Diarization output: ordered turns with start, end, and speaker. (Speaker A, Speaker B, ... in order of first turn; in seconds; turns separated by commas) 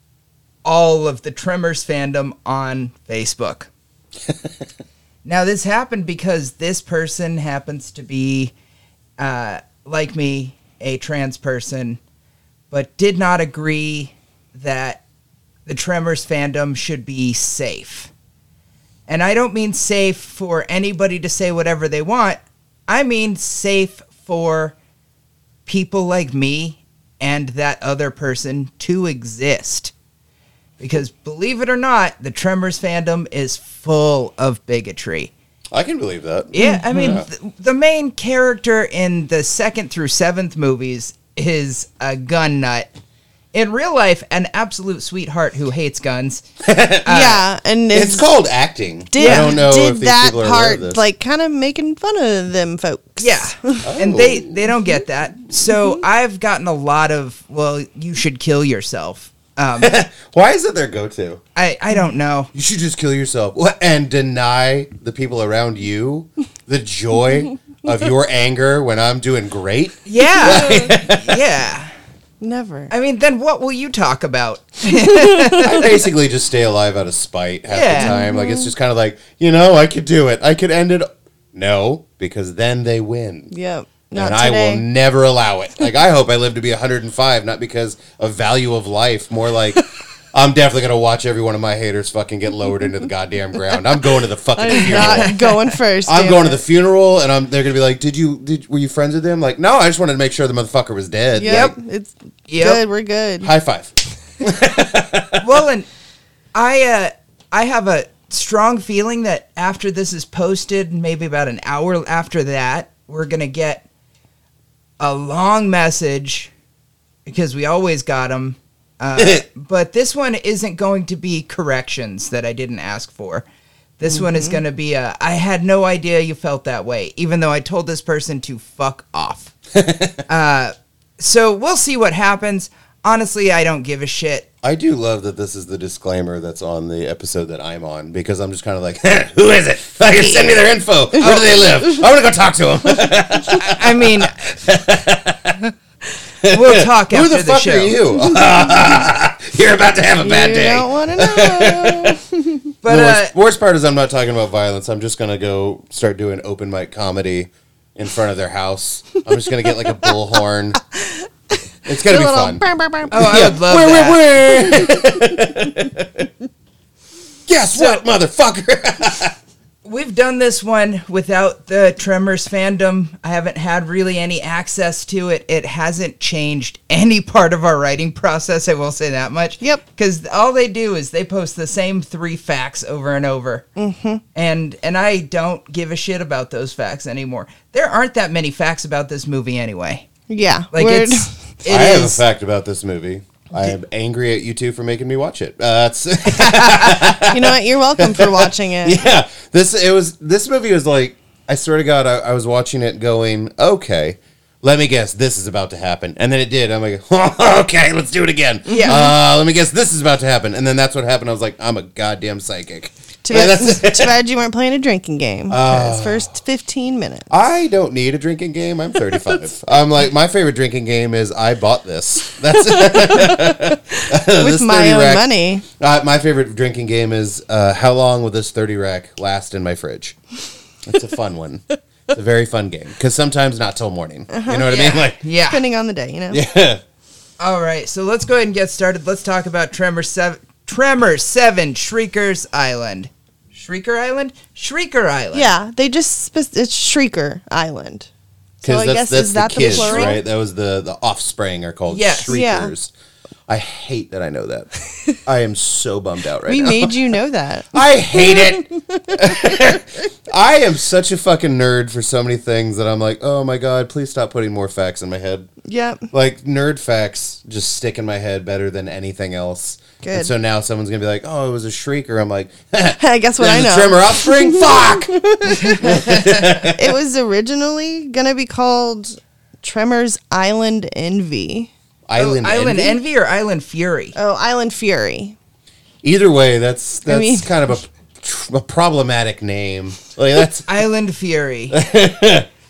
Speaker A: 0.7-3.7, Speaker A: 5.2-8.5, Speaker A: 9.2-12.0, Speaker A: 12.7-15.0, Speaker A: 15.7-18.1, Speaker A: 19.1-24.8, Speaker A: 25.7-29.9, Speaker A: 30.8-35.3, Speaker B: 35.7-37.3, Speaker A: 36.5-42.9, Speaker C: 36.6-37.2, Speaker A: 43.5-46.5, Speaker B: 46.6-47.3, Speaker A: 47.0-47.4, Speaker C: 47.1-48.3, Speaker B: 47.9-51.0, Speaker C: 49.1-53.9, Speaker A: 49.2-49.6, Speaker A: 53.2-60.0, Speaker B: 53.8-54.7, Speaker B: 59.8-61.4, Speaker A: 61.6-62.5, Speaker B: 62.5-71.4, Speaker A: 70.1-71.9, Speaker C: 70.5-70.9, Speaker C: 72.4-72.9, Speaker A: 72.9-75.9, Speaker C: 74.9-75.9, Speaker B: 75.6-83.5, Speaker A: 77.7-78.2, Speaker C: 78.0-78.7, Speaker C: 83.5-84.8, Speaker B: 84.2-95.5, Speaker C: 94.6-96.6, Speaker A: 95.0-95.3, Speaker B: 96.0-101.7, Speaker C: 101.3-103.5, Speaker A: 101.5-101.7, Speaker A: 102.5-102.8, Speaker B: 103.4-105.4, Speaker A: 105.4-105.9, Speaker A: 106.5-113.9, Speaker A: 115.0-116.5, Speaker A: 117.3-123.5, Speaker B: 119.2-119.4, Speaker A: 124.0-129.6, Speaker C: 124.1-124.6, Speaker B: 129.8-130.2, Speaker A: 130.3-134.5, Speaker B: 134.6-145.6, Speaker C: 141.2-142.0, Speaker A: 143.6-144.4, Speaker B: 146.4-152.2, Speaker A: 146.5-148.0, Speaker C: 150.2-152.7, Speaker A: 152.8-153.3, Speaker B: 152.8-160.8, Speaker C: 161.0-161.3, Speaker B: 161.8-166.3, Speaker C: 162.0-163.5, Speaker A: 163.1-164.2, Speaker C: 164.5-165.4, Speaker B: 167.5-169.3, Speaker A: 167.7-168.0, Speaker A: 169.8-183.7, Speaker C: 183.8-184.2, Speaker A: 184.3-190.1, Speaker C: 190.3-191.3, Speaker A: 190.7-192.2, Speaker B: 191.7-214.2, Speaker A: 196.3-197.0, Speaker C: 197.2-199.1, Speaker A: 208.7-209.1, Speaker C: 208.7-209.1, Speaker C: 213.2-217.3, Speaker B: 215.5-216.3, Speaker B: 217.3-230.2, Speaker C: 222.7-225.7, Speaker B: 230.8-235.2, Speaker C: 234.3-234.8, Speaker A: 234.7-235.6, Speaker C: 235.4-236.4, Speaker B: 236.3-236.8, Speaker A: 237.4-245.5, Speaker C: 245.3-248.1, Speaker C: 248.6-250.2, Speaker B: 248.6-252.9, Speaker A: 249.6-250.2, Speaker A: 251.9-252.3, Speaker C: 252.3-252.7, Speaker B: 253.5-257.0, Speaker C: 256.5-259.8, Speaker B: 257.7-265.5, Speaker C: 265.6-266.1, Speaker B: 266.1-276.9, Speaker C: 270.0-270.3, Speaker C: 273.0-281.7, Speaker A: 275.6-276.2, Speaker B: 282.1-283.0, Speaker A: 282.2-284.2, Speaker C: 284.1-285.4, Speaker B: 286.0-290.7, Speaker C: 287.1-287.5, Speaker A: 290.7-291.8, Speaker B: 291.7-292.5